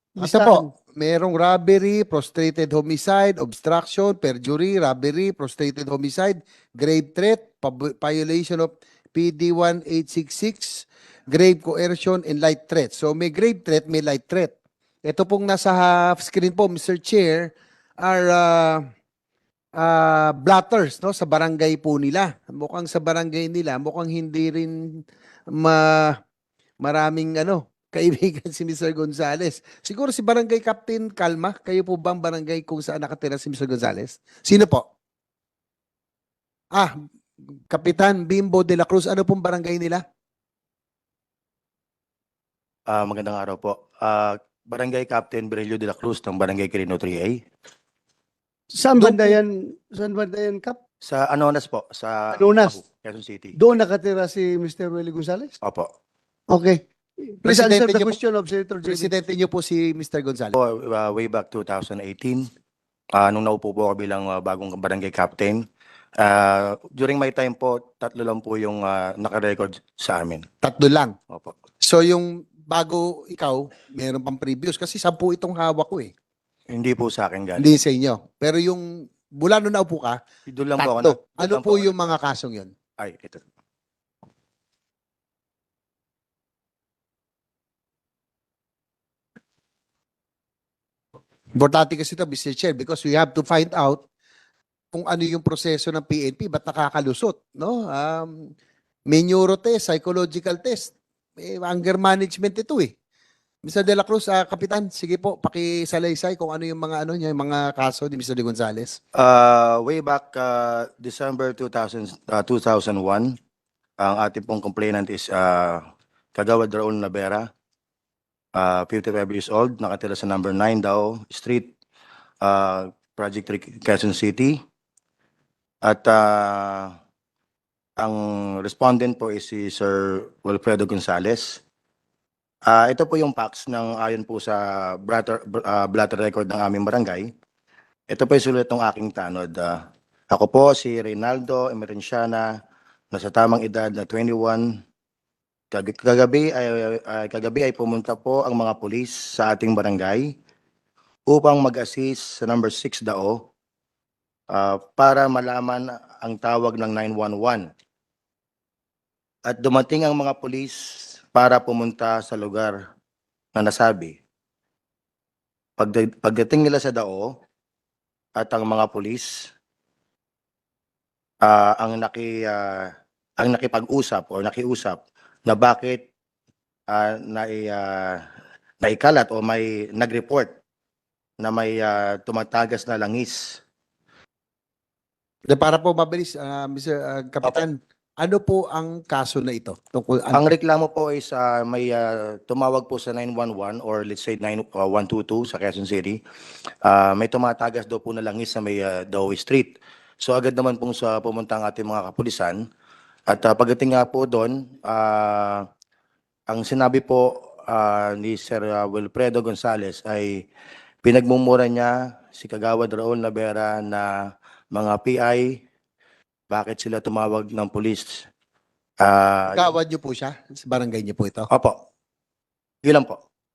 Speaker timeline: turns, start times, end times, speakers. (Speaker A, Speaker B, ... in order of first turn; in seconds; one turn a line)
Speaker A: 0.1-0.7
Speaker B: 0.2-14.5
Speaker B: 15.0-18.9
Speaker B: 19.8-26.2
Speaker B: 26.8-34.9
Speaker B: 37.7-40.0
Speaker C: 42.9-47.4
Speaker A: 48.7-50.8
Speaker B: 49.0-49.4
Speaker C: 51.0-53.5
Speaker A: 52.3-52.8
Speaker A: 53.6-55.5
Speaker C: 55.6-55.9
Speaker A: 56.5-56.8
Speaker A: 57.4-59.1
Speaker B: 57.4-58.2
Speaker B: 58.8-60.5
Speaker C: 60.5-62.4
Speaker C: 63.1-65.6
Speaker C: 66.2-70.5
Speaker B: 70.6-71.2
Speaker B: 71.8-76.1
Speaker C: 76.7-77.7
Speaker B: 77.5-80.2
Speaker C: 80.5-81.9
Speaker B: 80.8-82.7
Speaker C: 83.0-83.4
Speaker B: 91.5-94.0
Speaker B: 94.9-98.5
Speaker B: 99.1-102.9
Speaker B: 103.6-109.0
Speaker C: 109.1-113.3
Speaker C: 114.0-115.8
Speaker C: 116.3-117.4
Speaker C: 118.5-121.7
Speaker C: 122.4-124.6
Speaker C: 125.8-126.9
Speaker C: 128.0-131.6
Speaker C: 132.7-137.3
Speaker C: 138.1-139.8
Speaker C: 140.3-142.5
Speaker C: 143.1-144.7
Speaker C: 145.7-150.3
Speaker C: 151.3-153.4
Speaker C: 154.5-157.7
Speaker C: 159.5-162.8
Speaker C: 163.6-164.2
Speaker C: 165.8-167.3
Speaker C: 168.4-169.5
Speaker C: 171.4-176.0
Speaker C: 176.9-178.2
Speaker C: 178.8-180.5
Speaker C: 181.4-183.6
Speaker B: 185.5-190.4
Speaker C: 190.3-196.2
Speaker C: 196.8-202.6
Speaker C: 203.3-205.6
Speaker C: 206.5-210.4
Speaker C: 211.0-214.1
Speaker C: 214.7-215.6
Speaker C: 216.5-218.2
Speaker C: 219.0-219.7
Speaker B: 219.5-221.5
Speaker C: 222.8-223.2